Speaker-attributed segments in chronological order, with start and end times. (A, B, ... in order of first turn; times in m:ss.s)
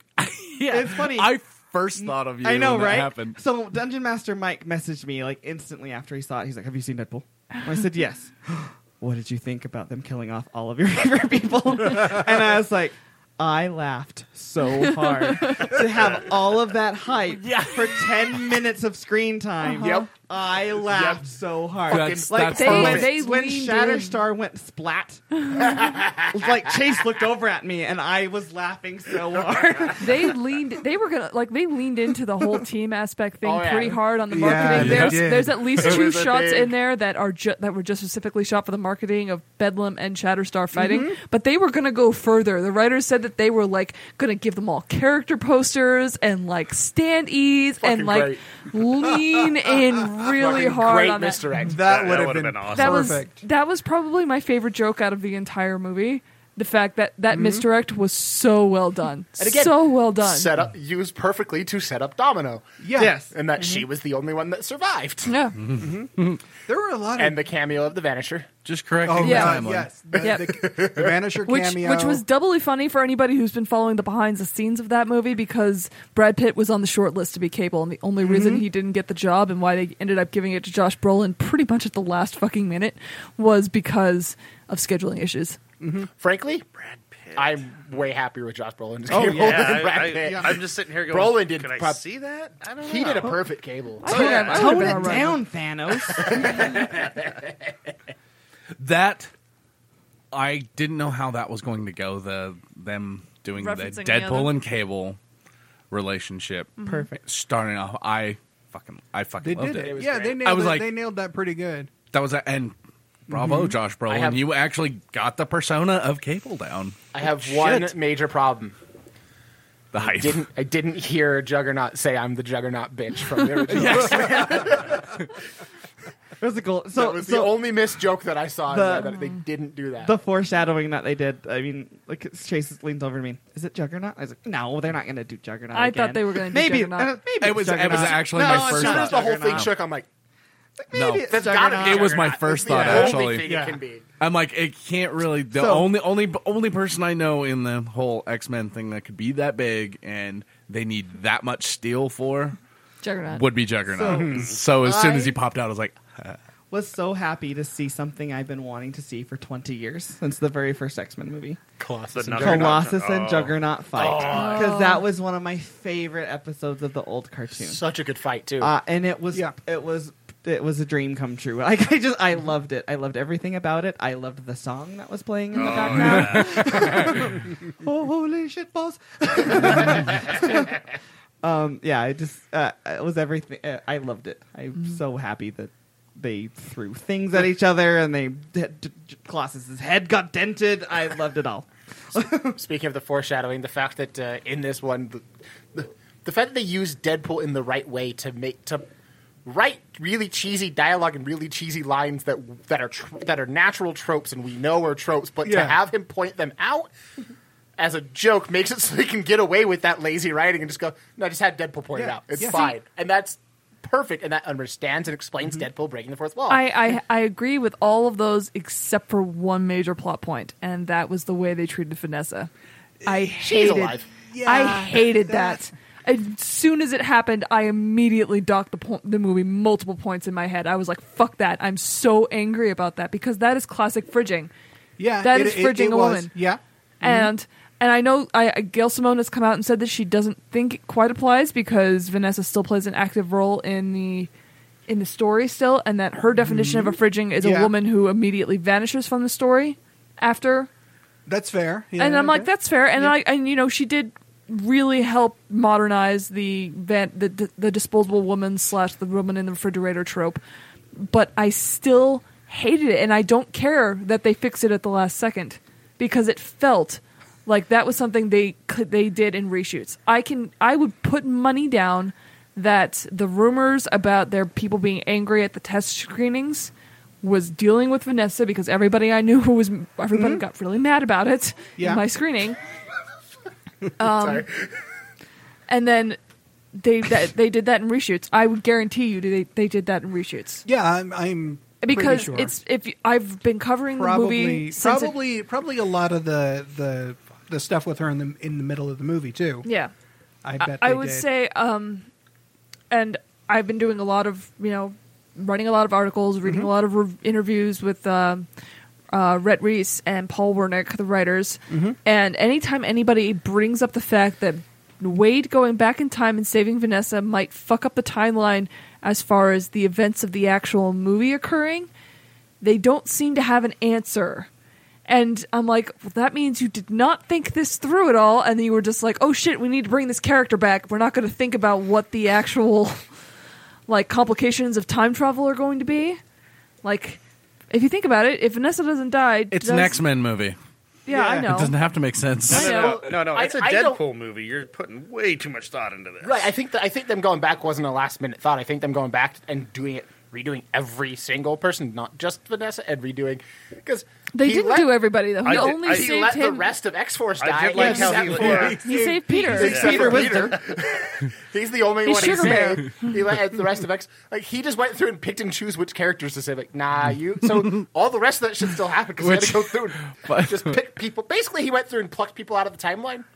0:00.2-0:03.4 A
0:00.7-0:01.4 B
0:02.0-0:25.2 B
0:15.0-0:15.7 C
0:19.7-0:20.1 C
0:19.8-0:20.1 D
0:20.8-0:21.3 D
0:21.9-0:23.1 D
0:21.9-0:23.1 A
0:22.6-0:24.2 C
0:25.6-0:26.4 D
0:26.3-0:30.4 B
0:30.0-0:51.4 C
0:33.4-0:34.0 D
0:34.3-0:36.0 E
0:34.7-0:35.2 A
0:35.8-0:36.7 D
0:40.7-0:41.2 E
0:47.8-0:48.4 D
0:50.2-0:51.8 D
0:51.6-0:53.4 E
0:51.8-0:53.2 F
0:52.7-1:00.5 C
0:57.3-0:57.7 E
0:59.4-1:02.7 D
1:02.8-1:03.8 E
1:03.0-1:03.3 B
1:03.2-1:05.3 D
1:05.3-1:05.6 C
1:05.6-1:06.4 A
1:05.7-1:06.1 E
1:06.7-1:07.5 E
1:07.2-1:08.5 D
1:08.6-1:10.0 A
1:09.0-1:12.2 E
1:09.2-1:09.6 C
1:10.1-1:11.2 D
1:10.2-1:10.6 C
1:11.5-1:25.6 C
1:18.2-1:18.7 E
1:25.8-1:26.1 E
1:26.2-1:26.6 D
1:26.8-1:27.6 F
1:27.4-1:34.6 D
1:29.1-1:33.4 F
1:34.0-1:35.4 C
1:34.1-1:36.6 B
1:34.1-1:34.5 F
1:36.2-1:37.3 D
1:38.8-1:39.3 A
1:40.3-1:45.2 A
1:43.6-1:44.6 C
1:45.9-1:50.9 A
1:46.8-1:47.1 C
1:46.9-1:47.2 B
1:49.4-1:51.9 E
1:49.8-1:50.4 D
1:52.1-1:52.8 A
1:53.3-1:53.8 E
1:53.3-1:58.0 A
1:54.1-1:54.5 D
1:57.1-1:58.8 D
1:59.9-2:00.5 A
2:00.0-2:05.1 D
2:03.7-2:04.7 A
2:06.4-2:07.7 B
2:06.9-2:10.1 D
2:08.7-2:09.2 B
2:10.0-2:19.7 B
2:15.7-2:17.2 C
2:17.4-2:19.7 A
2:17.9-2:20.1 D
2:18.4-2:19.1 E
2:20.8-2:23.1 B
2:20.9-2:23.5 A
2:21.3-2:24.0 D
2:22.7-2:23.8 E
2:24.2-2:32.6 A
2:25.6-2:25.9 B
2:33.0-2:33.5 C
2:33.3-2:36.4 A
2:33.9-2:35.4 B
2:34.1-2:34.5 E
2:36.7-2:41.6 B
2:41.8-2:43.0 D
2:42.1-2:44.3 F
2:42.4-2:47.8 B
2:44.0-2:44.7 D
2:44.3-2:45.1 C
2:47.6-2:48.7 D
2:48.6-3:00.8 B
2:55.5-2:56.9 F
2:55.9-2:57.2 A
3:01.4-3:12.6 B
3:12.5-3:18.8 D
3:19.5-3:26.9 D
3:25.4-3:25.8 E
3:27.8-3:36.7 D
3:32.0-3:32.6 E
3:32.4-3:32.7 C
3:36.5-3:42.5 C
3:43.0-3:54.5 C
3:43.4-3:44.1 D
3:44.3-3:45.6 E
3:55.0-3:57.3 E
3:55.2-3:56.3 C
3:57.0-4:04.3 C
4:04.9-4:10.7 C
4:06.4-4:07.7 E
4:11.3-4:13.2 E
4:12.0-4:20.4 C
4:21.0-4:42.6 C
4:40.1-4:40.4 E
4:41.8-4:42.0 E
4:44.0-4:44.5 C
4:44.1-4:44.7 D
4:45.7-4:46.2 C
4:46.7-4:50.6 C
4:50.7-4:52.6 E
4:51.8-4:55.2 C
4:53.9-4:59.7 E
4:59.6-4:59.9 C
5:00.4-5:01.3 E
5:00.6-5:02.1 C
5:02.9-5:08.5 C
5:06.4-5:06.7 E
5:09.1-5:21.9 C
5:11.7-5:12.0 E
5:22.6-5:24.5 C
5:25.1-5:33.0 C
5:33.9-5:36.2 C
5:36.8-5:40.0 C
5:39.5-5:40.6 A
5:41.1-5:41.8 C
5:41.1-5:41.5 E
5:41.4-5:42.7 A
5:42.5-5:46.5 F
5:42.5-5:44.0 D
5:42.5-5:43.0 C
5:46.2-5:58.8 D
5:54.4-5:56.7 C
5:55.4-5:56.2 F
5:57.4-5:58.9 F
5:57.7-6:00.5 E
5:58.8-5:59.9 C
5:59.6-6:13.2 D
5:59.6-6:00.1 F
5:59.7-6:00.5 B
6:02.0-6:03.1 C
6:09.2-6:10.8 A